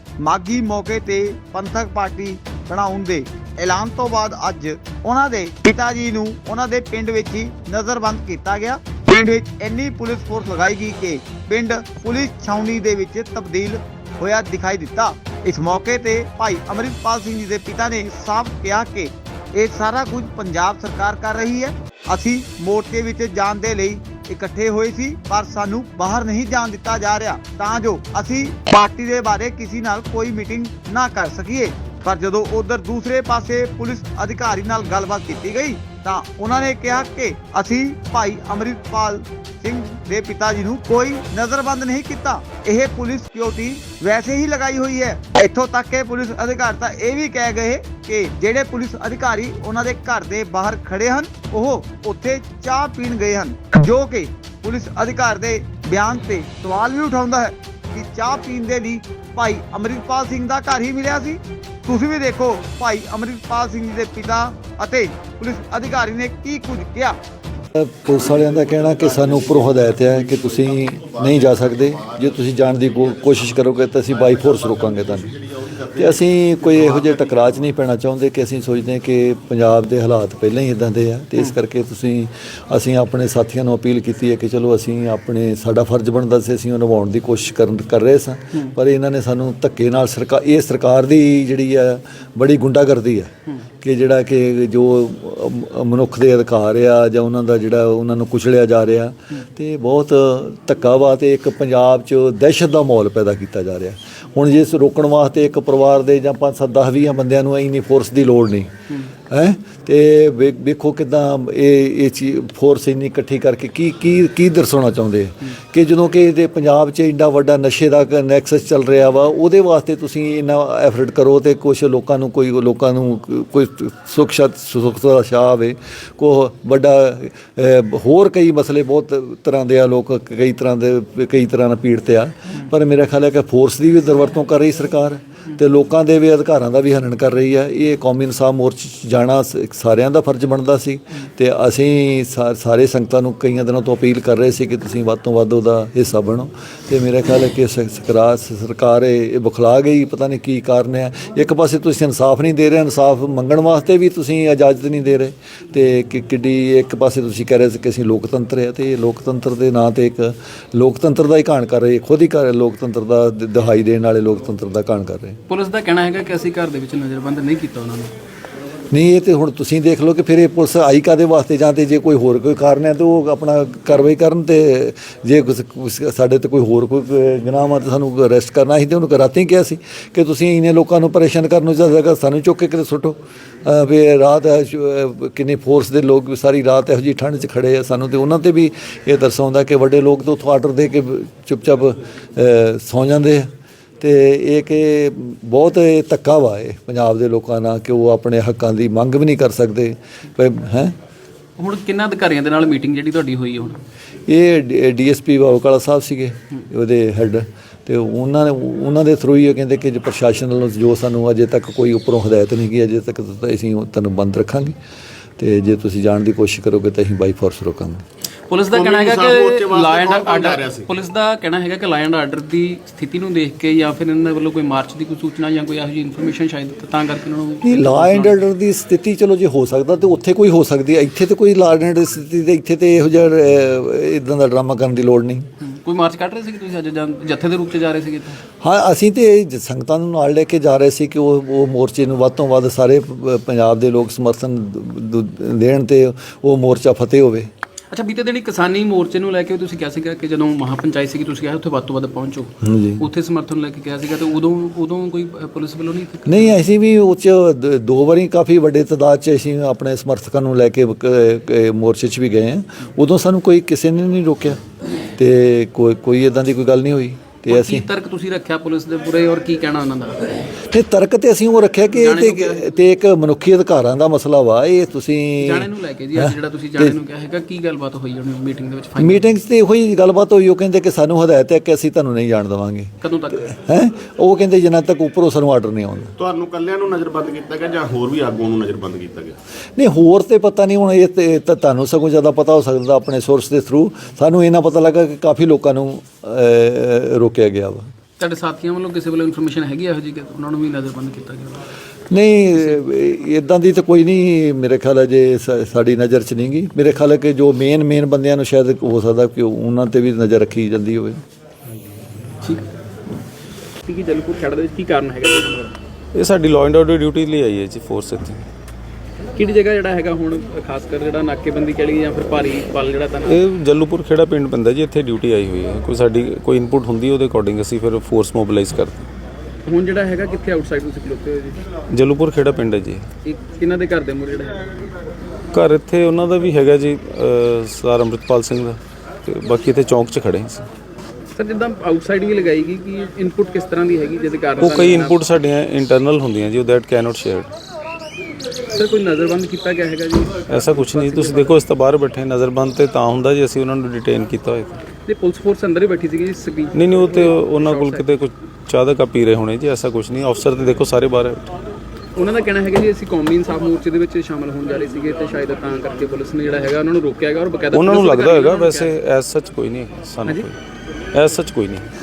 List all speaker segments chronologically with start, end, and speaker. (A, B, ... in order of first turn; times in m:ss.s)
0:00.2-1:07.2 A
1:07.8-1:48.7 B
1:17.1-1:17.5 C
1:49.3-2:45.4 B
2:45.5-2:48.1 D
2:48.9-3:21.0 B
3:21.6-3:23.8 D
3:24.3-3:34.8 B
3:35.4-3:38.0 B
3:38.5-3:48.4 D
3:38.7-3:40.9 C
3:47.6-3:55.5 B
3:55.6-3:58.4 D
3:58.6-4:07.5 B
4:07.9-4:16.6 D
4:12.6-4:13.1 B
4:16.2-4:24.6 B
4:25.2-4:27.9 B
4:27.5-4:30.5 D
4:30.6-4:37.0 B
4:31.9-4:32.8 D
4:35.4-4:39.2 D
4:39.0-4:42.9 B
4:43.0-4:43.6 D
4:43.4-4:46.1 B
4:46.2-4:49.4 C
4:49.8-4:57.9 B
4:58.2-5:01.7 D
5:02.1-5:11.2 B
5:12.4-5:12.7 D
5:13.9-5:15.8 D
5:16.1-5:18.4 E
5:19.4-5:23.4 D
5:23.3-5:29.1 E
5:29.7-5:31.7 D
5:31.9-5:33.1 E
5:33.2-5:34.8 D
5:35.5-5:40.7 E
5:41.4-5:45.2 D
5:44.6-5:47.5 E
5:48.7-5:51.6 D
5:50.5-5:54.8 E
5:55.1-5:58.1 D
5:56.7-6:01.4 E
6:02.2-6:08.9 D
6:07.7-6:10.6 E
6:11.1-6:11.9 E